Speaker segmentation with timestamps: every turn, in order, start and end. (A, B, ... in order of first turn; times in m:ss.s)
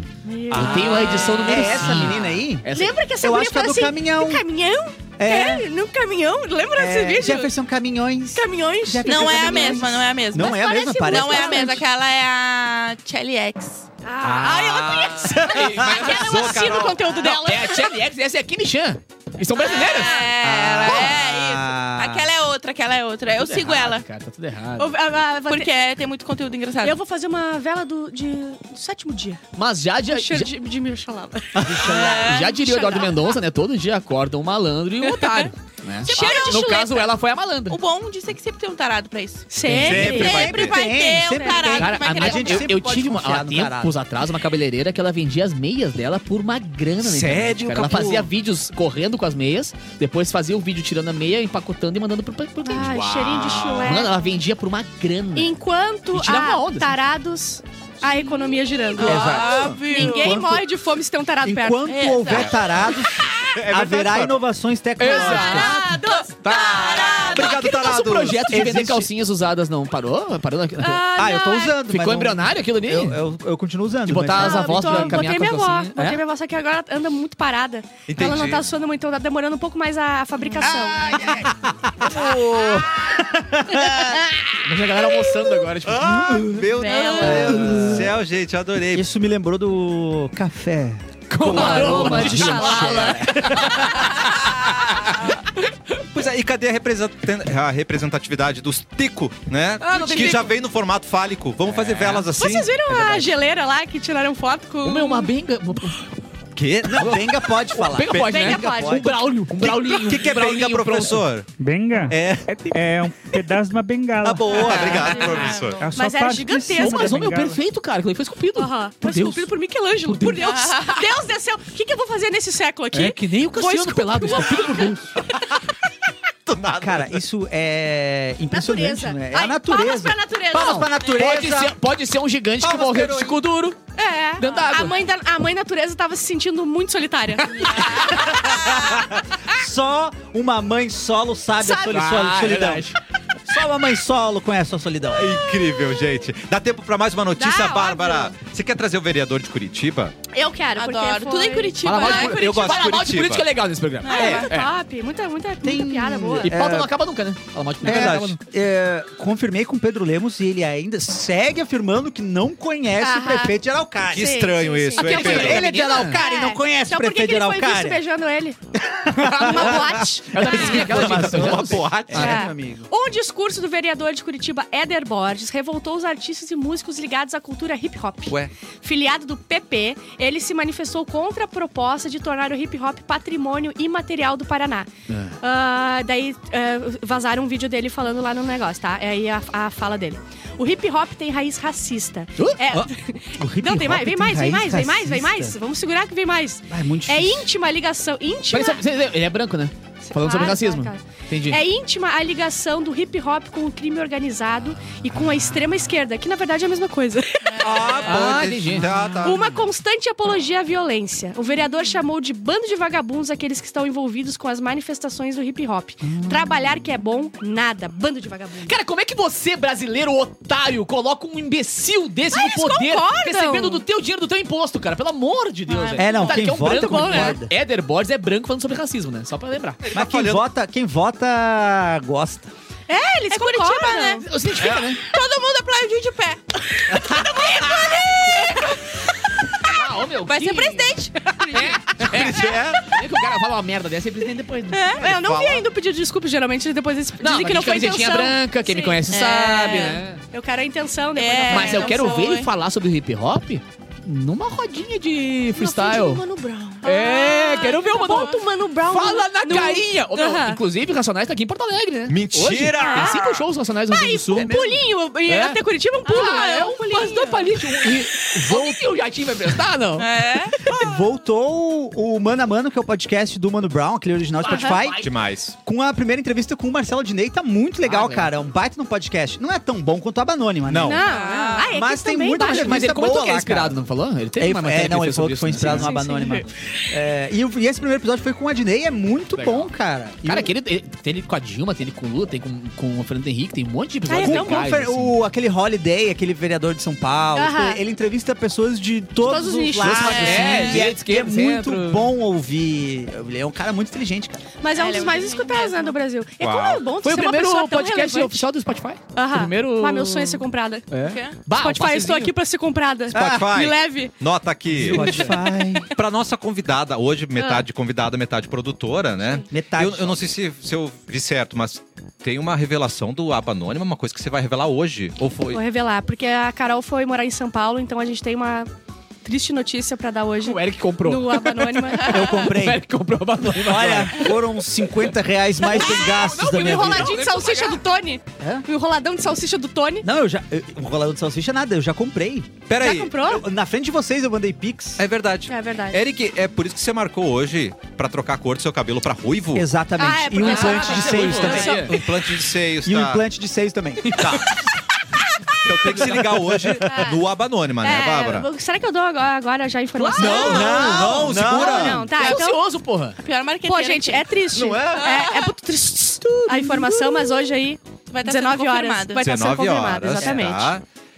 0:00.2-0:02.0 A
0:00.5-0:02.7 B
0:00.5-0:03.0 C
0:00.5-0:01.2 D
0:02.7-0:07.5 A
0:03.2-0:04.4 B
0:05.2-0:05.6 B
0:06.7-0:11.8 B
0:08.3-0:11.8 A
0:09.0-0:13.9 E
0:14.0-0:18.0 A
0:14.2-0:15.9 B
0:14.2-0:17.3 D
0:15.4-0:20.2 C
0:19.6-0:24.0 E
0:19.7-0:20.3 A
0:20.4-0:22.3 B
0:23.4-0:25.0 C
0:24.8-0:25.7 A
0:25.5-0:27.0 E
0:26.8-0:29.4 A
0:29.6-0:30.5 C
0:30.0-0:31.8 A
0:31.6-0:32.4 B
0:31.8-0:33.0 E
0:32.2-0:37.8 C
0:32.6-0:33.4 A
0:35.0-0:35.5 A
0:36.0-0:37.0 A
0:36.1-0:36.9 E
0:37.7-0:42.9 E
0:39.5-0:40.5 A
0:39.6-0:40.1 C
0:39.8-0:40.8 D
0:40.0-0:44.0 B
0:41.0-0:41.8 A
0:41.8-0:53.1 C
0:47.0-0:48.3 D
0:52.6-0:54.1 A
0:52.8-0:54.0 D
0:53.7-0:55.6 C
0:55.4-1:02.1 A
0:56.1-0:57.0 C
0:58.9-1:00.4 E
0:59.0-1:00.7 B
1:01.4-1:06.0 B
1:01.9-1:02.8 E
1:03.5-1:04.4 D
1:05.0-1:05.8 C
1:05.0-1:07.8 A
1:06.1-1:07.6 E
1:06.4-1:11.2 C
1:06.6-1:08.6 D
1:08.5-1:09.1 B
1:10.8-1:11.8 A
1:11.2-1:15.2 B
1:11.8-1:13.2 C
1:14.0-1:16.2 C
1:14.4-1:21.2 A
1:18.1-1:18.6 D
1:20.6-1:24.2 B
1:24.3-1:26.4 C
1:25.8-1:29.1 D
1:26.1-1:26.7 B
1:26.7-1:27.8 A
1:26.8-1:27.6 E
1:27.2-1:28.1 B
1:28.9-1:34.3 B
1:31.3-1:33.8 C
1:31.4-1:33.3 A
1:31.5-1:32.3 D
1:36.1-1:42.8 D
1:39.8-1:40.5 A
1:40.0-1:40.5 C
1:41.7-1:42.3 C
1:42.3-1:45.3 A
1:42.9-1:43.3 C
1:44.8-1:46.1 C
1:46.6-1:47.1 D
1:46.8-1:49.2 B
1:47.0-1:51.2 C
1:48.0-1:51.5 D
1:48.3-1:49.1 A
1:51.6-1:54.7 F
1:52.1-1:52.8 D
1:54.2-1:55.9 D
1:54.5-1:55.2 B
1:54.7-1:55.8 E
1:55.0-1:57.3 A
1:55.8-1:57.6 F
1:56.8-2:00.5 C
1:58.6-2:05.0 A
2:00.4-2:01.0 E
2:02.9-2:05.2 C
2:05.3-2:05.6 D
2:06.4-2:07.2 D
2:06.8-2:11.8 B
2:08.5-2:10.9 A
2:10.5-2:13.8 C
2:11.0-2:11.3 E
2:12.6-2:13.4 B
2:14.0-2:18.3 A
2:14.4-2:15.0 C
2:17.6-2:18.8 E
2:18.4-2:22.9 B
2:21.6-2:23.0 C
2:23.5-2:25.4 B
2:25.1-2:30.1 D
2:27.3-2:28.3 A
2:30.3-2:32.5 A
2:30.8-2:33.1 E
2:31.8-2:34.7 C
2:32.0-2:33.5 D
2:34.0-2:34.5 E
2:34.1-2:36.5 A
2:35.6-2:36.9 B
2:36.4-2:38.4 C
2:37.8-2:48.0 B
2:37.8-2:38.3 D
2:43.0-2:43.5 A
2:44.1-2:45.7 D
2:44.1-2:48.6 A
2:45.0-2:46.2 C
2:49.0-2:52.9 B
2:49.1-2:52.2 C
2:49.2-2:51.1 A
2:50.4-2:52.4 D
2:52.1-3:04.9 A
3:05.1-3:05.4 C
3:05.4-3:18.8 A
3:12.4-3:12.6 C
3:12.7-3:15.6 B
3:16.7-3:17.5 B
3:18.5-3:21.6 C
3:20.0-3:27.9 A
3:27.4-3:28.4 E
3:27.6-3:29.6 D
3:28.0-3:29.3 C
3:29.2-3:38.7 A
3:36.0-3:36.5 B
3:38.6-3:49.8 C
3:42.3-3:43.8 A
3:45.7-3:47.2 E
3:46.0-3:47.5 B
3:46.9-3:47.3 A
3:49.8-3:50.4 D
3:49.9-3:52.5 B
3:52.9-3:54.2 A
3:53.3-3:54.3 E
3:54.2-3:55.0 C
3:55.0-3:56.6 E
3:57.0-3:58.3 C
3:57.7-3:58.8 E
3:59.6-4:05.0 C
3:59.7-4:01.9 E
4:01.9-4:02.9 D
4:04.7-4:09.0 A
4:05.0-4:05.7 D
4:07.2-4:10.2 C
4:09.1-4:10.0 E
4:10.3-4:12.2 A
4:11.2-4:12.5 E
4:11.5-4:16.2 C
4:15.5-4:20.6 A
4:16.8-4:24.5 C
4:16.8-4:18.4 E
4:22.1-4:23.3 D
4:22.8-4:23.2 A
4:23.0-4:23.2 B
4:23.9-4:27.9 A
4:24.3-4:24.8 B
4:25.2-4:30.1 C
4:26.1-4:26.6 E
4:30.0-4:30.6 E
4:30.7-4:41.0 B
4:34.4-4:35.3 C
4:34.5-4:34.8 A
4:35.0-4:35.5 D
4:37.8-4:38.3 C
4:40.7-4:41.0 D
4:40.8-4:42.9 A
4:41.0-4:41.7 E
4:41.6-4:43.8 B
4:42.4-4:46.0 C
4:44.4-4:50.5 B
4:45.6-4:46.5 A
4:49.3-4:55.2 C
4:54.1-4:54.7 A
4:54.2-5:04.4 B
4:57.4-4:57.8 A
4:59.2-5:00.3 A
5:00.0-5:02.1 C
5:00.0-5:00.9 E
5:04.6-5:08.4 A
5:04.7-5:06.0 E
5:06.4-5:06.9 D
5:07.0-5:12.3 C
5:09.1-5:10.9 A
5:11.0-5:11.4 E
5:11.5-5:14.1 A
5:13.1-5:13.5 B
5:13.1-5:15.4 D
5:14.7-5:15.9 B
5:14.8-5:15.3 C
5:15.9-5:25.6 D
5:17.4-5:17.6 A
5:19.5-5:20.3 B
5:25.5-5:28.7 A
5:29.2-5:32.3 A
5:30.4-5:34.4 C
5:32.0-5:32.5 E
5:32.1-5:32.9 B
5:33.5-5:37.1 B
5:35.6-5:40.1 A
5:35.6-5:37.8 C
5:38.4-5:38.6 B
5:40.0-5:42.6 B
5:42.7-5:43.2 D
5:42.8-5:43.4 A
5:43.2-5:45.0 B
5:45.0-5:49.7 D
5:45.5-5:46.0 A
5:49.5-5:52.0 B
5:50.0-5:52.1 A
5:50.4-5:52.0 C
5:51.6-5:53.2 D
5:52.8-5:54.4 B
5:54.0-5:54.4 C
5:54.2-5:54.5 D
5:55.6-5:58.5 D
5:55.9-5:56.8 B
5:56.8-5:57.2 A
5:57.8-6:02.6 A
5:59.9-6:01.4 C
6:00.2-6:02.1 B
6:00.2-6:02.2 D
6:02.1-6:03.2 C
6:02.2-6:02.5 E
6:03.2-6:04.3 E
6:03.7-6:10.8 A
6:04.5-6:05.0 D
6:04.9-6:05.5 E
6:08.1-6:09.3 E
6:09.2-6:10.8 D
6:10.2-6:10.4 B